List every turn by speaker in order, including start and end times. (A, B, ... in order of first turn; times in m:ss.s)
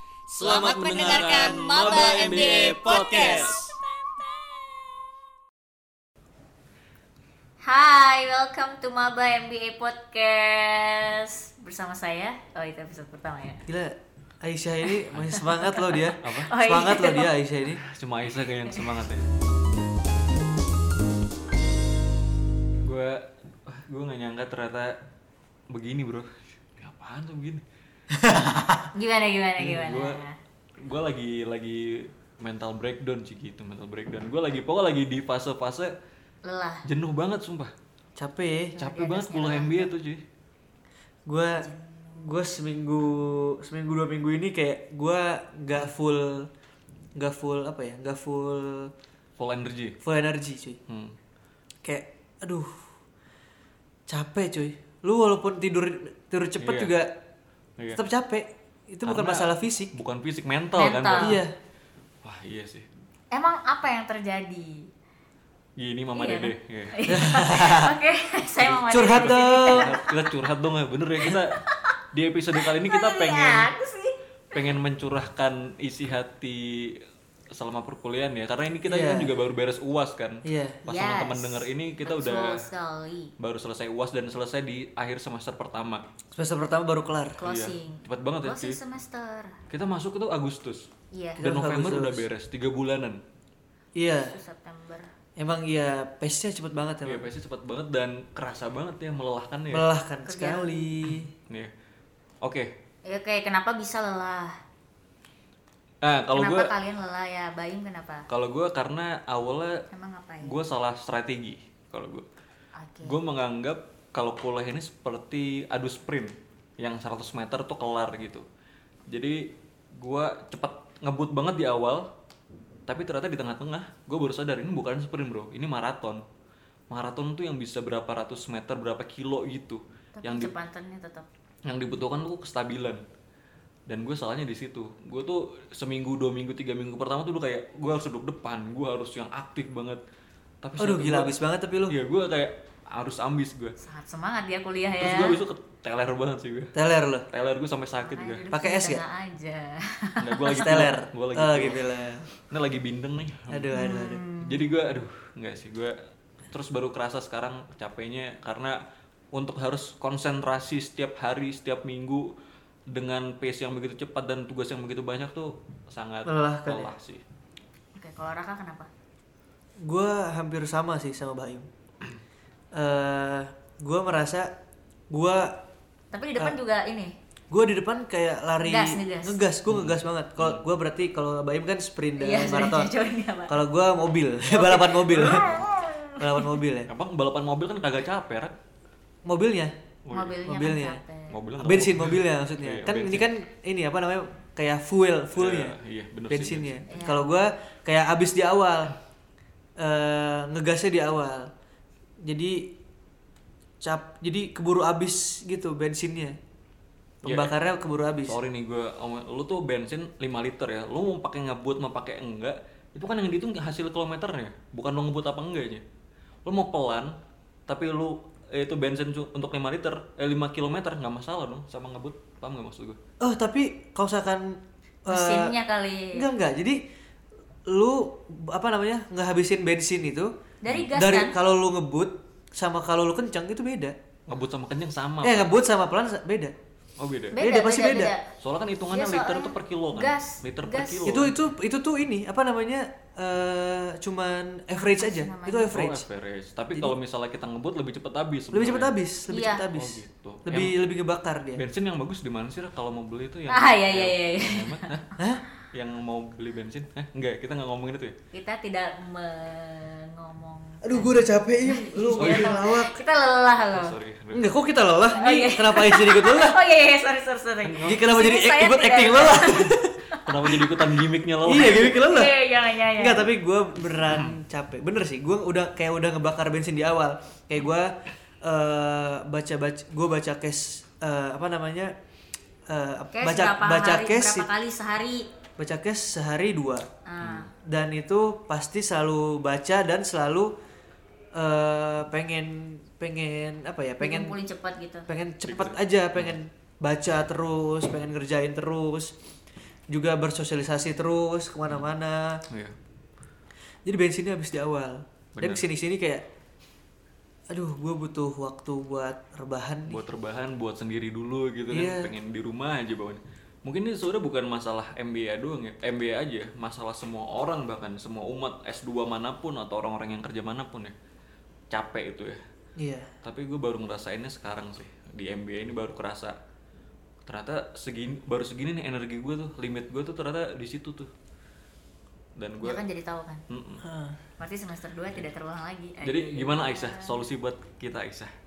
0:00.3-0:03.6 A
0:00.4-0:03.6 B
0:00.4-0:03.7 C
0:07.6-0:13.6 B
0:13.7-0:17.8 C
0:15.6-0:17.3 B
0:16.2-0:16.5 A
0:17.7-0:19.2 A
0:22.8-0:24.9 A
0:25.7-0:27.6 A
0:28.1-0:28.8 C
0:28.9-0:30.4 B
0:29.6-0:30.2 A
0:30.8-0:35.9 A
0:36.4-0:36.8 B
0:36.8-0:37.7 A
0:38.2-0:38.8 C
0:38.8-0:39.9 B
0:38.8-0:40.2 A
0:41.3-0:46.5 C
0:41.6-0:41.8 B
0:47.2-0:48.9 C
0:49.4-0:50.0 A
0:50.0-0:50.8 C
0:50.9-0:51.1 A
0:51.8-0:52.8 C
0:54.1-0:57.1 C
0:56.6-0:57.0 A
0:57.9-0:59.9 C
0:59.0-1:01.4 A
1:00.7-1:01.4 B
1:01.2-1:01.5 C
1:02.2-1:02.9 A
1:03.3-1:04.9 B
1:05.8-1:07.0 A
1:06.1-1:10.2 B
1:07.1-1:07.9 C
1:08.6-1:11.6 A
1:08.7-1:10.0 C
1:11.2-1:11.8 B
1:12.1-1:13.7 A
1:12.6-1:14.7 B
1:14.5-1:17.0 A
1:17.5-1:22.6 A
1:18.8-1:19.3 C
1:20.4-1:20.8 C
1:20.8-1:23.3 B
1:23.4-1:26.0 A
1:26.3-1:27.4 C
1:27.4-1:29.6 B
1:27.4-1:28.8 A
1:29.7-1:30.8 A
1:31.1-1:31.4 B
1:31.4-1:32.3 C
1:31.4-1:33.2 A
1:33.9-1:34.4 C
1:34.1-1:35.1 B
1:35.4-1:37.3 C
1:37.0-1:39.9 A
1:39.7-1:41.3 C
1:40.2-1:40.9 B
1:42.4-1:42.7 A
1:43.0-1:44.5 B
1:46.0-1:46.7 A
1:46.3-1:48.2 B
1:48.3-1:49.7 A
1:49.9-1:50.6 B
1:50.4-1:52.2 A
1:52.7-1:53.2 B
1:53.0-1:58.4 A
1:59.1-1:59.4 A
2:00.0-2:02.1 A
2:02.9-2:06.2 A
2:06.9-2:10.5 A
2:10.2-2:11.3 B
2:11.6-2:13.0 A
2:13.9-2:20.0 A
2:20.6-2:23.8 A
2:20.8-2:22.0 C
2:23.8-2:25.4 B
2:25.0-2:26.7 A
2:26.7-2:27.3 C
2:27.3-2:28.5 A
2:28.0-2:30.8 B
2:28.5-2:29.0 C
2:30.2-2:33.8 A
2:30.5-2:32.3 C
2:33.5-2:34.2 C
2:33.7-2:34.6 B
2:34.4-2:35.9 A
2:36.5-2:38.8 A
2:39.3-2:42.3 A
2:42.9-2:47.2 A
2:46.2-2:46.9 C
2:48.0-2:48.9 B
2:49.8-2:51.7 C
2:52.7-2:54.5 C
2:55.1-2:55.6 C
2:56.1-2:57.1 B
2:57.5-3:02.9 C
2:58.6-2:59.4 B
2:59.7-3:00.6 A
3:02.2-3:03.6 B
3:03.5-3:05.6 C
3:04.5-3:06.6 B
3:06.2-3:06.9 C
3:06.9-3:08.5 A
3:09.2-3:09.7 C
3:10.0-3:10.4 A
3:10.1-3:11.4 B
3:10.4-3:11.0 C
3:11.3-3:13.3 A
3:11.6-3:15.8 C
3:15.3-3:16.8 A
3:16.3-3:18.9 C
3:16.9-3:17.2 B
3:19.8-3:21.5 C
3:22.2-3:22.7 C
3:23.8-3:26.4 C
3:27.2-3:28.4 C
3:27.2-3:27.5 A
3:28.2-3:35.8 A
3:36.4-3:37.1 A
3:37.7-3:43.0 A
3:43.2-3:45.6 C
3:45.1-3:46.3 B
3:46.1-3:46.8 C
3:47.7-3:50.3 C
3:50.6-3:51.4 B
3:50.9-3:53.9 C
3:54.3-3:55.5 A
3:55.2-3:56.5 C
3:57.0-3:57.4 A
3:57.3-3:58.3 B
3:57.4-3:58.1 C
3:58.4-4:01.4 A
3:58.9-4:01.1 B
4:01.0-4:06.0 C
4:04.8-4:05.8 B
4:05.6-4:08.9 A
4:08.5-4:11.6 C
4:09.3-4:09.7 B
4:09.7-4:10.7 A
4:11.6-4:15.0 A
4:13.5-4:15.0 B
4:15.2-4:15.4 C
4:15.7-4:18.1 A
4:18.3-4:23.9 B
4:20.8-4:23.0 C
4:22.2-4:22.6 A
4:23.7-4:24.5 A
4:24.3-4:26.6 C
4:25.1-4:30.7 B
4:27.6-4:28.1 A
4:27.8-4:29.9 C
4:30.2-4:32.0 A
4:31.4-4:32.3 C
4:31.6-4:33.3 B
4:32.9-4:37.9 C
4:34.1-4:34.4 A
4:38.4-4:41.9 C
4:42.7-4:44.5 C
4:43.1-4:45.2 B
4:45.6-4:46.8 C
4:47.0-4:47.5 B
4:47.2-4:47.5 A
4:47.6-4:50.5 C
4:51.4-4:54.3 C
4:54.0-4:55.1 B
4:55.1-4:59.1 C
4:55.4-4:56.4 A
4:59.9-5:02.4 C
5:03.8-5:06.2 C
5:05.4-5:05.6 A
5:07.5-5:10.0 C
5:09.8-5:20.9 A
5:11.7-5:12.1 C
5:21.7-5:22.4 A
5:22.8-5:23.1 C
5:23.2-5:26.3 A
5:27.2-5:31.1 A
5:32.4-5:32.8 A
5:32.6-5:33.4 B
5:33.5-5:33.8 A
5:33.8-5:34.1 C
5:34.4-5:37.2 B
5:36.0-5:38.3 A